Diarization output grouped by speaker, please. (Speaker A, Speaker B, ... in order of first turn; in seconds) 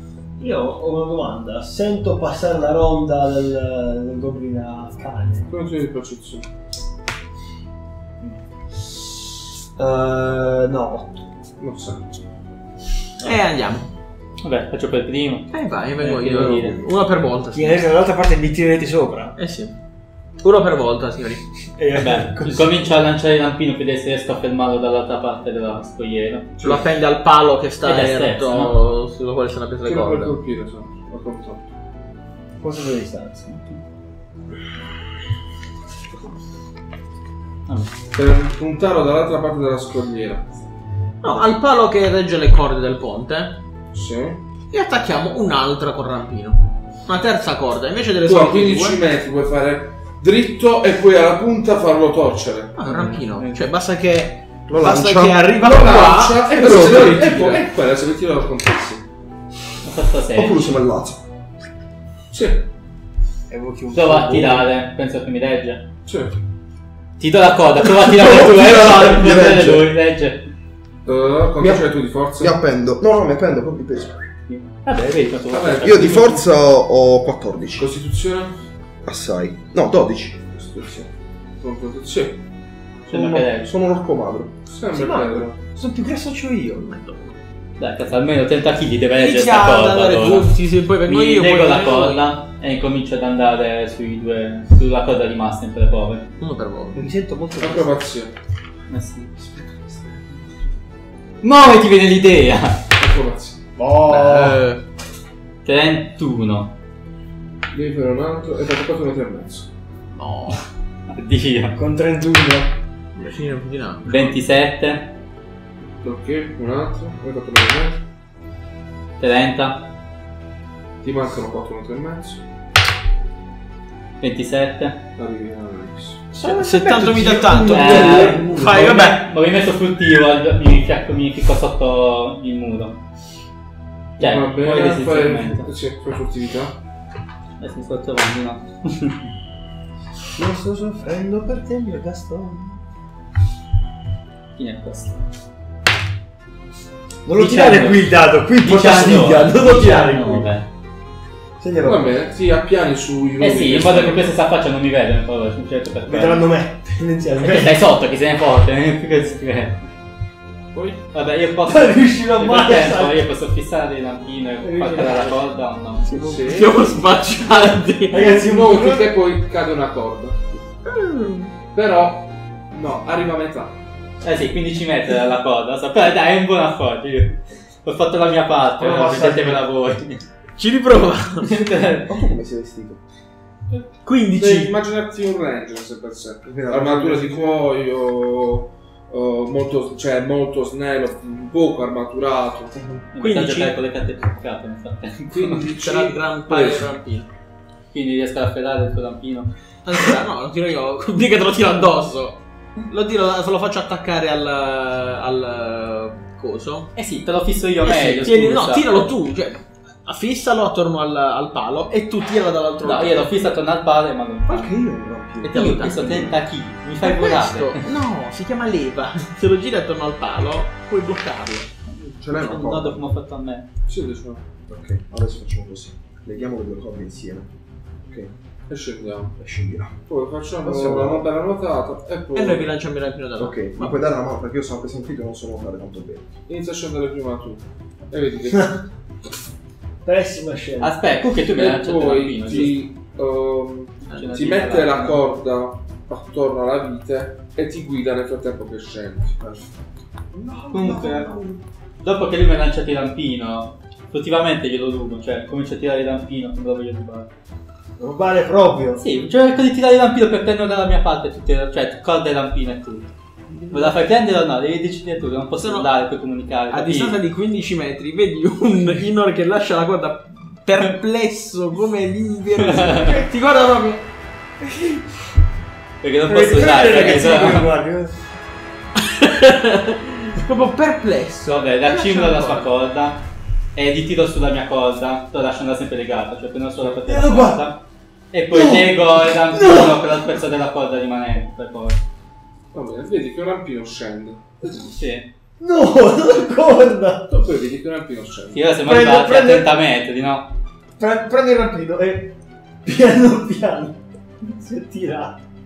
Speaker A: 0.4-5.5, 9.8-11.2, 17.5-19.4, 21.8-22.8, 32.6-33.8, 63.5-64.7, 84.9-87.0, 96.9-98.0, 99.4-100.2, 103.8-104.6, 111.8-112.8, 126.3-129.0, 140.3-142.8, 147.2-150.5, 151.6-152.2, 156.1-157.8, 161.7-163.2, 164.6-165.4, 166.2-166.4, 168.1-169.1, 178.8-179.6, 184.1-184.7, 240.0-241.3, 258.0-259.0, 274.7-275.0, 276.3-278.1, 287.0-287.7, 288.6-288.9, 289.5-290.0, 295.6-297.3, 298.9-299.7, 301.0-305.4
Speaker B: 5.5-6.5, 11.6-12.1, 26.6-26.9, 29.9-31.7, 38.1-40.5, 43.9-44.4, 48.2-52.8, 55.6-59.0, 62.3-62.6, 66.1-66.3, 71.1-72.6, 75.5-76.4, 77.8-78.6, 81.6-82.4, 84.7-85.5, 97.6-98.3, 103.0-103.6, 107.7-109.7, 116.0-118.0, 121.0-122.4, 125.2-126.2, 134.2-136.8, 151.8-154.3, 160.7-161.0, 166.2-166.8, 168.2-170.6, 171.7-173.8, 184.4-192.8, 195.3-196.9, 223.9-224.4, 228.7-229.4, 230.1-232.7, 236.5-238.8, 241.5-249.3, 292.7-294.9, 297.3-298.6
Speaker C: 13.2-13.9, 15.5-17.9, 19.4-19.8, 20.4-21.4, 26.6-30.4, 41.2-43.6, 44.7-49.0, 52.8-57.6, 86.9-87.4, 89.2-92.2, 96.4-97.1, 104.0-104.8, 110.1-110.7, 113.2-114.4, 126.5-129.2, 166.1-168.3, 170.9-171.5, 180.6-181.7, 193.2-193.8, 195.6-197.3, 199.8-202.4, 202.9-206.9, 207.8-213.3, 215.4-216.4, 217.0-221.7, 232.3-234.0, 265.6-265.9, 266.7-274.0, 277.1-277.5, 279.0-282.7
Speaker D: 14.4-16.8, 21.9-26.5, 27.8-28.7, 37.7-37.9, 52.9-53.6, 59.8-60.8, 63.9-65.8, 67.2-70.5, 74.5-76.3, 83.1-83.7, 87.8-96.3, 98.9-99.3, 101.4-102.8, 105.7-106.7, 111.1-111.8, 114.0-115.1, 119.2-119.9, 124.2-125.0, 127.7-133.0, 134.2-135.7, 137.6-139.2, 144.6-145.2, 147.3-150.7, 153.4-156.5, 157.4-159.8, 161.1-166.1, 174.2-180.2, 181.4-182.2, 193.2-195.6, 197.9-199.5, 207.0-209.1, 212.8-214.7, 215.5-217.9, 221.9-223.7, 240.8-242.8, 244.2-245.2, 250.7-251.3, 252.0-257.3, 259.0-263.1, 263.7-267.2, 272.6-273.2, 276.0-277.7, 281.5-287.8, 288.3-292.0, 294.7-295.3, 298.5-300.5
Speaker E: 54.7-55.6, 56.6-57.3, 60.4-61.2, 68.0-69.9, 71.6-74.2, 75.8-77.9, 79.0-81.1, 83.1-84.5, 182.1-183.0, 186.4-187.6, 214.5-216.2, 222.2-223.1, 224.7-227.5, 228.0-228.3, 229.4-229.9, 230.7-231.2, 233.4-236.3, 249.4-249.7, 250.3-251.6